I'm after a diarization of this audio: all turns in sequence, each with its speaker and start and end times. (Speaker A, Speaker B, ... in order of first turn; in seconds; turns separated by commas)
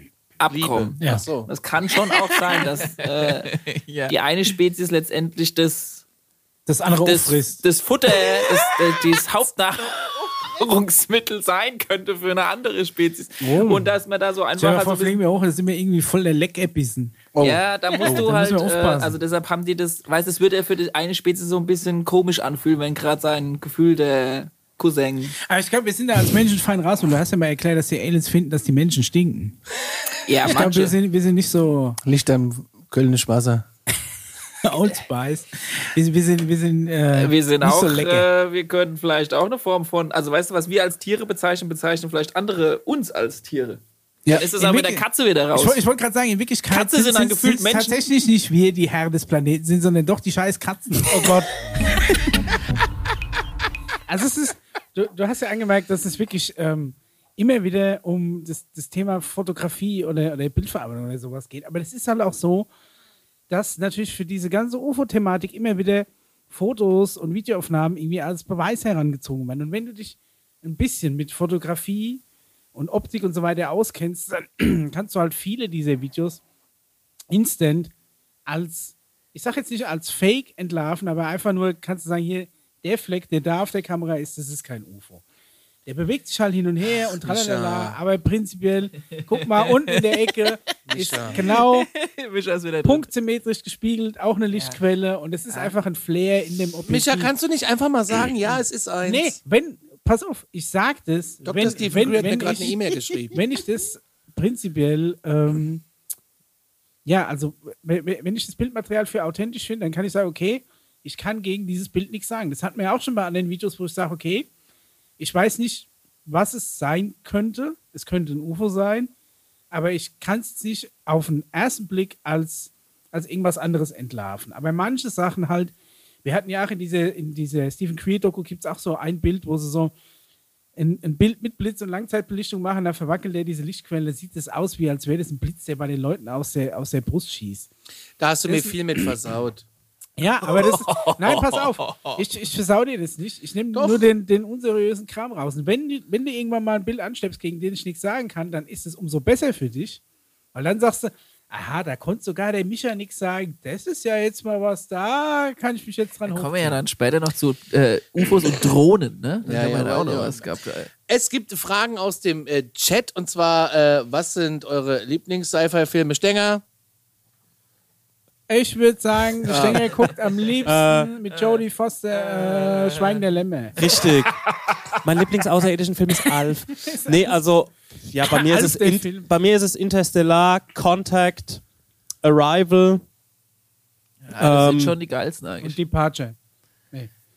Speaker A: 0.4-6.0, Speaker B: 0.5-1.5, Speaker C: 6.7-7.5, Speaker A: 7.0-15.2, Speaker C: 13.4-13.9, Speaker C: 14.6-15.4, Speaker D: 15.3-17.2, Speaker A: 17.4-25.4, Speaker C: 17.9-19.1, Speaker D: 25.6-29.6, Speaker A: 30.3-30.9, Speaker C: 30.5-31.9, Speaker B: 32.0-33.7, Speaker C: 34.7-35.3, Speaker D: 35.0-35.3, Speaker D: 36.0-37.0, Speaker C: 36.4-38.2, Speaker A: 37.1-45.8, Speaker C: 44.3-45.0, Speaker C: 45.5-46.1, Speaker D: 46.1-51.4, Speaker C: 46.7-47.8, Speaker A: 46.7-48.0, Speaker C: 51.1-51.7, Speaker C: 54.1-62.7, Speaker C: 63.5-72.2, Speaker C: 72.8-76.4, Speaker C: 77.3-77.9, Speaker C: 78.5-85.2, Speaker C: 85.9-91.9, Speaker B: 87.2-88.0, Speaker A: 89.6-90.3, Speaker B: 90.9-91.4, Speaker A: 91.4-93.1, Speaker C: 92.8-97.3, Speaker B: 96.9-99.4, Speaker C: 99.0-105.8, Speaker B: 101.4-103.4, Speaker C: 107.0-114.5, Speaker C: 115.2-119.1, Speaker C: 119.7-125.7, Speaker C: 126.2-129.9, Speaker C: 130.8-137.7, Speaker B: 138.2-139.6, Speaker C: 138.5-138.7, Speaker C: 140.2-150.0, Speaker A: 140.9-141.9, Speaker B: 143.7-144.1, Speaker C: 150.5-156.8, Speaker A: 156.3-160.9, Speaker B: 159.5-160.4, Speaker B: 161.1-166.6, Speaker C: 168.5-173.9, Speaker B: 169.5-169.9, Speaker E: 170.7-171.1, Speaker A: 172.2-173.1, Speaker E: 173.8-174.3, Speaker E: 175.0-181.6, Speaker C: 178.2-179.3, Speaker E: 182.2-183.0, Speaker A: 184.3-185.8, Speaker E: 184.4-185.0, Speaker C: 185.6-186.4